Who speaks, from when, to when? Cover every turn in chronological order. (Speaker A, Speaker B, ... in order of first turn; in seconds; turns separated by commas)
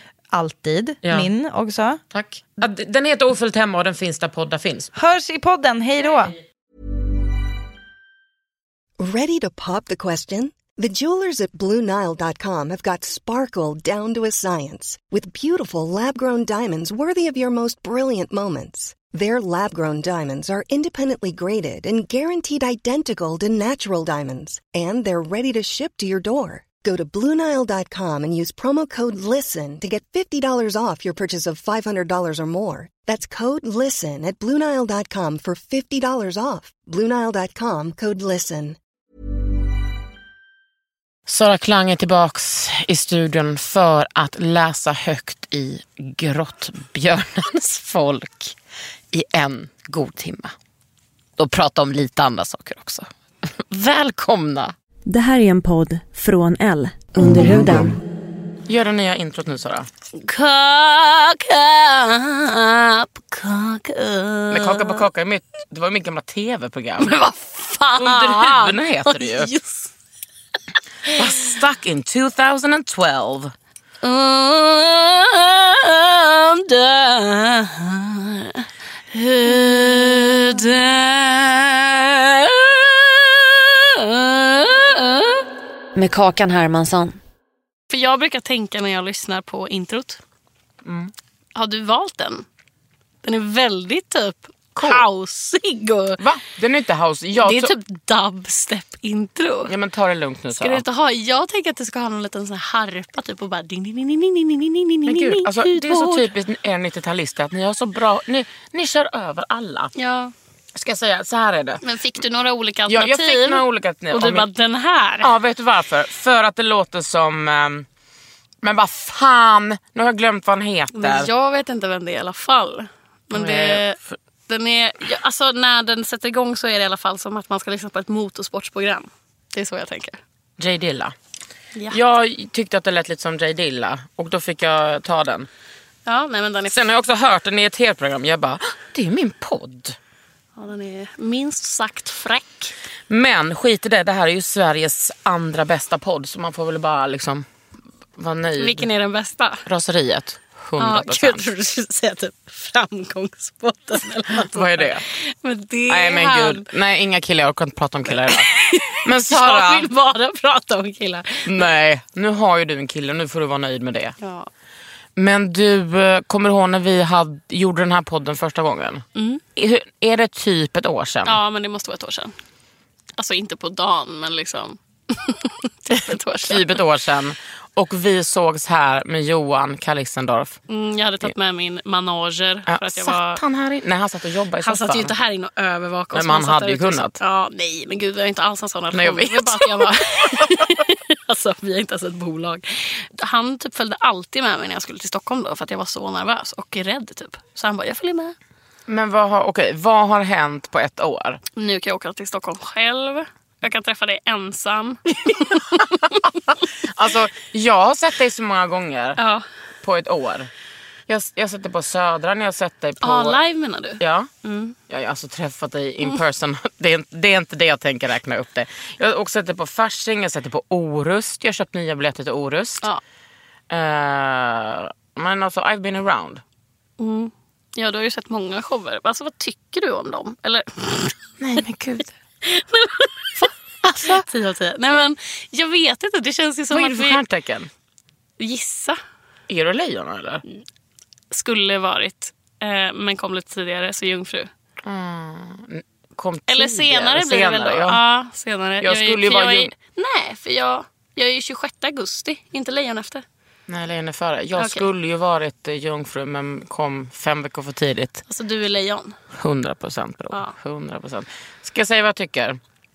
Speaker A: 0.3-2.0, Speaker B: 1.0-1.3, Speaker B: 2.1-4.9, Speaker A: 4.9-6.3, Speaker C: 9.0-38.8, Speaker B: 41.3-48.5, Speaker B: 49.1-50.5, Speaker B: 51.4-53.1, Speaker B: 53.7-54.7, Speaker D: 55.1-58.0, Speaker B: 58.7-59.9, Speaker E: 60.2-65.0, Speaker B: 64.5-67.1, Speaker E: 67.0-69.9, Speaker B: 68.0-69.5, Speaker E: 71.1-71.5, Speaker B: 71.1-73.5, Speaker E: 74.0-85.5, Speaker D: 85.9-87.2, Speaker E: 87.9-90.2, Speaker B: 90.8-91.1, Speaker E: 91.5-92.4, Speaker E: 93.2-96.2, Speaker B: 94.8-95.0, Speaker B: 96.2-97.7, Speaker E: 97.4-99.7, Speaker B: 99.7-100.8, Speaker E: 100.5-106.3, Speaker B: 105.0-109.9, Speaker E: 110.0-110.3, Speaker B: 110.7-111.8, Speaker E: 111.8-115.3, Speaker B: 112.9-114.5, Speaker B: 115.2-117.8, Speaker B: 118.6-121.3, Speaker E: 120.9-124.0, Speaker B: 123.3-124.2, Speaker E: 124.5-130.2, Speaker B: 130.6-131.1, Speaker B: 131.9-135.5, Speaker E: 136.1-136.8, Speaker B: 136.7-139.9, Speaker E: 140.6-142.7, Speaker B: 143.1-147.4, Speaker B: 148.2-148.8, Speaker E: 148.6-149.6, Speaker B: 149.7-151.5, Speaker E: 150.8-156.6, Speaker B: 154.4-155.0, Speaker B: 155.9-158.5, Speaker E: 158.1-161.7, Speaker B: 159.0-159.9, Speaker B: 161.4-164.1, Speaker E: 164.2-164.5, Speaker B: 165.2-169.0, Speaker E: 169.2-169.4, Speaker B: 169.6-171.4, Speaker E: 171.2-172.3, Speaker E: 173.2-176.8, Speaker B: 175.9-180.6, Speaker E: 180.7-183.4, Speaker B: 182.7-185.1, Speaker E: 184.6-198.3, Speaker B: 186.1-187.2, Speaker B: 188.9-189.7, Speaker B: 190.2-190.7, Speaker B: 198.9-201.4, Speaker E: 201.6-206.2, Speaker B: 205.2-209.2, Speaker E: 209.2-209.4, Speaker B: 209.8-210.5, Speaker B: 211.1-213.4, Speaker E: 213.0-214.8, Speaker B: 214.0-214.3, Speaker B: 214.9-222.9, Speaker B: 223.7-226.4, Speaker E: 227.0-231.2, Speaker B: 231.4-232.1, Speaker E: 232.4-237.2, Speaker B: 233.8-234.2, Speaker B: 236.7-237.7, Speaker E: 238.4-239.0, Speaker B: 239.5-240.4, Speaker E: 241.3-244.5, Speaker B: 244.8-248.0, Speaker E: 246.5-253.2, Speaker B: 248.8-249.7, Speaker B: 253.7-258.2, Speaker E: 254.6-254.9, Speaker E: 258.3-259.1, Speaker B: 259.3-262.6